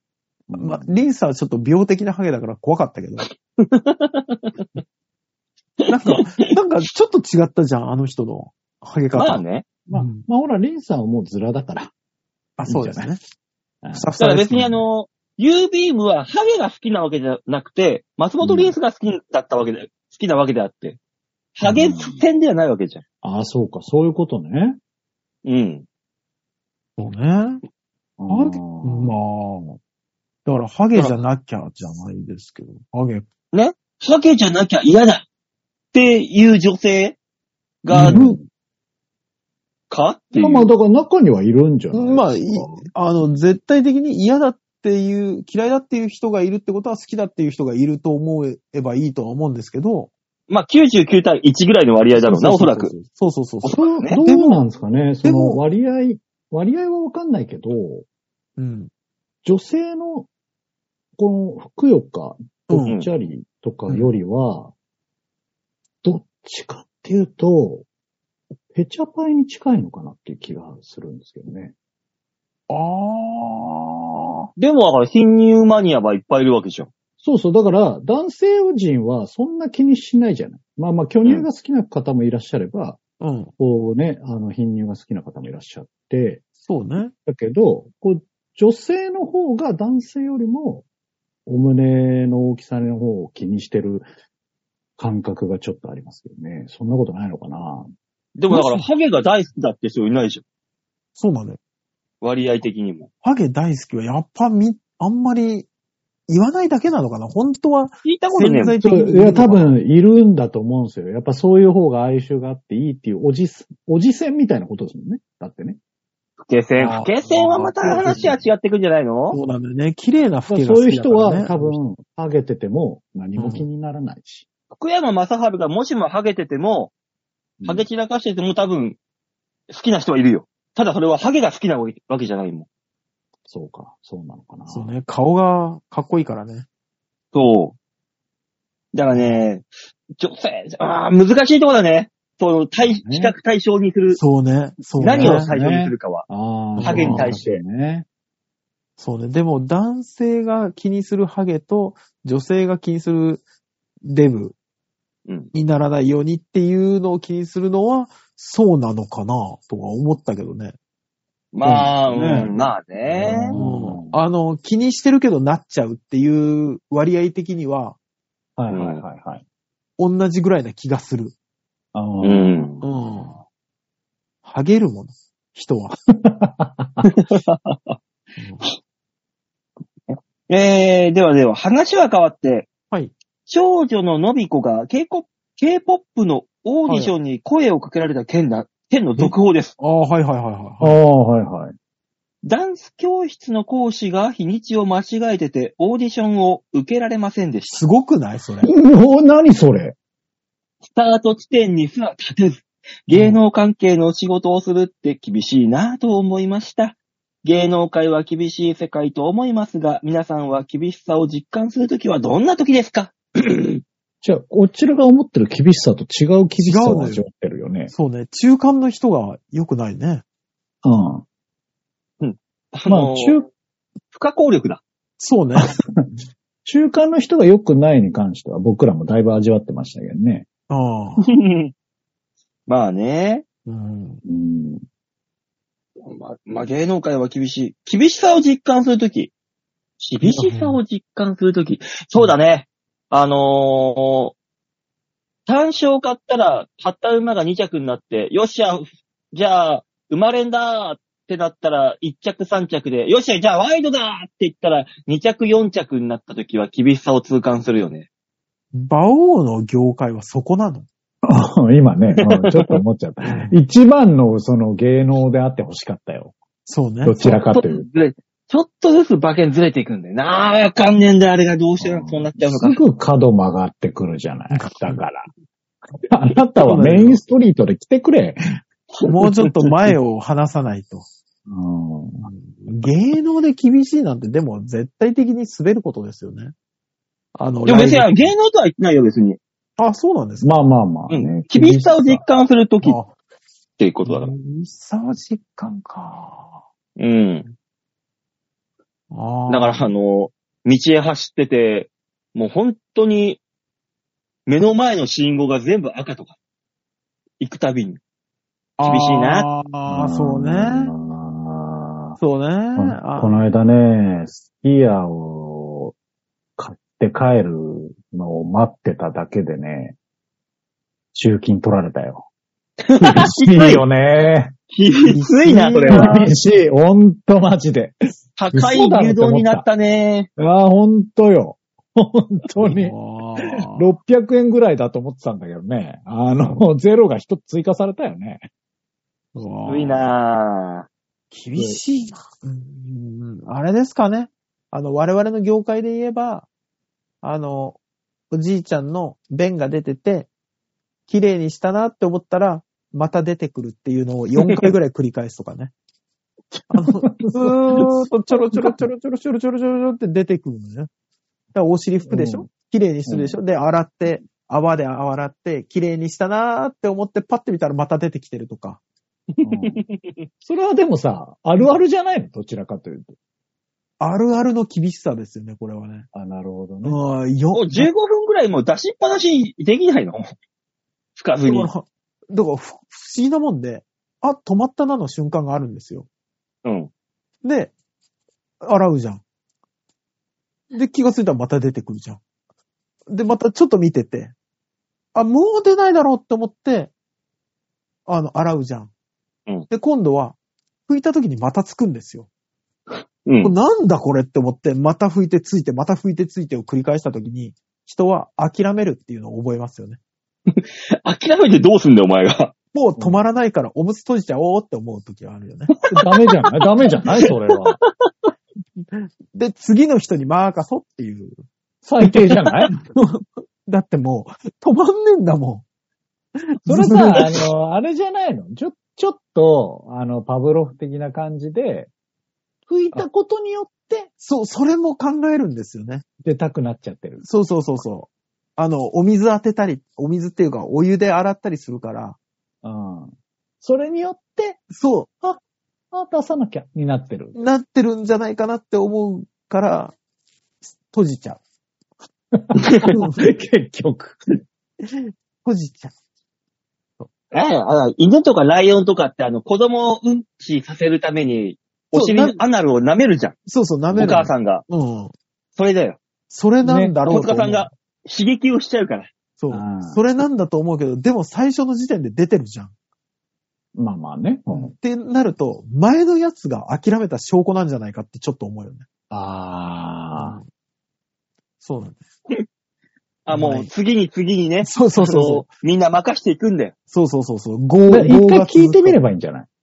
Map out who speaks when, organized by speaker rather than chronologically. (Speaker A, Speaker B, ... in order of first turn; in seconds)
Speaker A: 0.5-0.9, 9.9-11.9, 12.7-13.1, 13.8-14.1, 18.4-18.7, 21.6-22.2, 23.2-24.8, 28.2-29.2, 38.0-38.4, 40.4-42.9, 53.7-58.0, 59.5-60.3, 61.2-64.7, 66.0-67.9, 68.7-71.7, 77.2-83.0, 83.6-86.5, 87.3-90.9, 91.5-94.1, 95.0-97.9, 108.8-115.8, 117.9-118.3, 120.5-124.5, 127.6-127.9, 133.5-134.9, 142.8-143.3, 145.0-148.1, 162.2-162.6, 163.1-164.2, 168.6-169.4, 171.9-172.7, 176.2-177.0, 190.8-191.7, 198.6-199.9, 214.2-217.9, 220.8-221.2, 222.9-223.4, 225.7-226.0, 226.6-230.4, 234.2-234.8, 261.2-266.4, 267.0-267.9, 271.8-275.3, 276.1-278.6, 281.5-282.3, 290.4-292.2, 309.9-312.2, 312.8-315.9, 316.6-319.9, 321.1-322.3, 323.0-324.6, 325.9-328.0, 328.5-329.7, 330.4-332.9, 333.5-338.5, 341.5-341.8, 356.5-358.8, 362.1-362.4, 363.1-363.4, 369.4-369.8, 370.4-373.2, 376.1-377.0, 415.9-417.8, 421.8-422.8, 426.7-431.9, 432.7-434.1, 436.2-437.2, 442.6-444.6, 445.9-447.4, 452.4-454.2, 466.6-466.9, 469.5-470.0, 473.8-474.7, 479.1-480.4, 487.9-489.5
Speaker B: 0.6-3.3, 5.9-10.2, 12.6-13.2, 13.9-14.8, 27.0-27.6, 28.3-29.8, 30.4-33.3, 37.9-38.4, 41.9-50.1, 52.1-54.6, 55.2-55.6, 58.6-58.9, 62.7-63.0, 63.9-64.1, 72.7-74.5, 83.2-83.5, 86.6-87.1, 98.5-98.8, 101.2-101.6, 103.2-105.7, 106.3-109.7, 116.8-118.4, 119.3-121.8, 123.4-123.7, 134.7-136.7, 144.1-145.5, 146.8-147.6, 149.0-153.4, 154.0-154.6, 155.5-160.8, 161.7-162.5, 163.5-168.0, 170.0-171.3, 172.8-173.4, 174.4-175.9, 178.4-178.6, 186.9-187.1, 189.2-191.0, 197.7-198.7, 203.1-203.4, 216.6-217.2, 217.9-220.2, 225.2-225.7, 230.7-231.2, 233.7-234.2, 240.2-240.8, 258.7-260.9, 263.2-263.5, 266.7-267.2, 274.5-275.0, 276.6-277.2, 279.1-281.1, 282.2-286.5, 287.4-288.3, 289.8-290.5, 292.8-293.2, 294.1-296.6, 299.1-299.9, 308.8-310.9, 312.2-313.4, 325.1-326.4, 332.6-333.9, 339.4-340.0, 341.3-346.5, 347.2-347.8, 348.3-350.3, 351.1-355.7, 356.7-360.9, 361.5-368.8, 374.0-376.1, 376.8-377.9, 381.4-386.1, 387.4-387.7, 388.6-389.2, 390.7-392.2, 393.1-394.4, 395.1-396.9, 398.1-398.9, 399.7-402.3, 403.4-410.0, 412.7-415.7, 418.8-421.4, 422.8-425.6, 426.4-427.4, 434.2-436.0, 437.2-442.2, 444.7-445.1, 447.4-449.9, 450.7-451.4, 452.9-453.3, 454.8-455.9, 461.9-462.4, 463.4-465.1, 466.3-467.7, 469.4-472.7, 474.5-478.9, 480.2-480.4, 481.6-482.0, 483.3-483.7, 484.6-485.4, 486.9-489.0
Speaker C: 3.6-4.6, 5.8-6.5, 9.1-9.7, 14.2-21.0, 21.6-23.0, 25.4-25.9, 33.5-35.3, 35.9-37.2, 37.8-38.2, 39.9-40.7, 50.5-52.9, 53.6-54.2, 74.6-76.9, 98.4-100.4, 102.2-103.1, 108.0-108.8, 116.4-119.4, 124.7-126.9, 127.6-129.0, 129.7-132.7, 137.3-137.8, 138.9-144.2, 145.0-146.3, 146.8-147.6, 161.5-163.5, 168.7-169.0, 172.2-172.8, 177.1-178.0, 180.1-182.7, 183.4-189.7, 192.4-197.9, 200.8-213.8, 222.2-223.4, 224.1-224.8, 231.2-231.7, 232.7-233.4, 236.0-239.3, 240.0-244.3, 245.5-258.1, 262.2-262.8, 267.2-272.8, 279.0-279.7, 287.6-289.4, 291.1-293.0, 293.8-294.3, 297.0-297.5, 299.5-303.4, 304.5-306.4, 307.4-308.0, 308.8-309.5, 322.8-323.8, 324.7-326.3, 328.4-330.3, 339.7-340.9, 369.3-370.3, 377.5-380.4, 381.2-381.7, 386.6-386.9, 402.9-403.5, 410.5-412.5, 416.0-416.5, 417.2-418.3, 422.4-422.7, 452.6-452.8, 457.3-463.4, 463.9-464.6, 465.6-466.0, 467.1-469.1, 483.3-486.7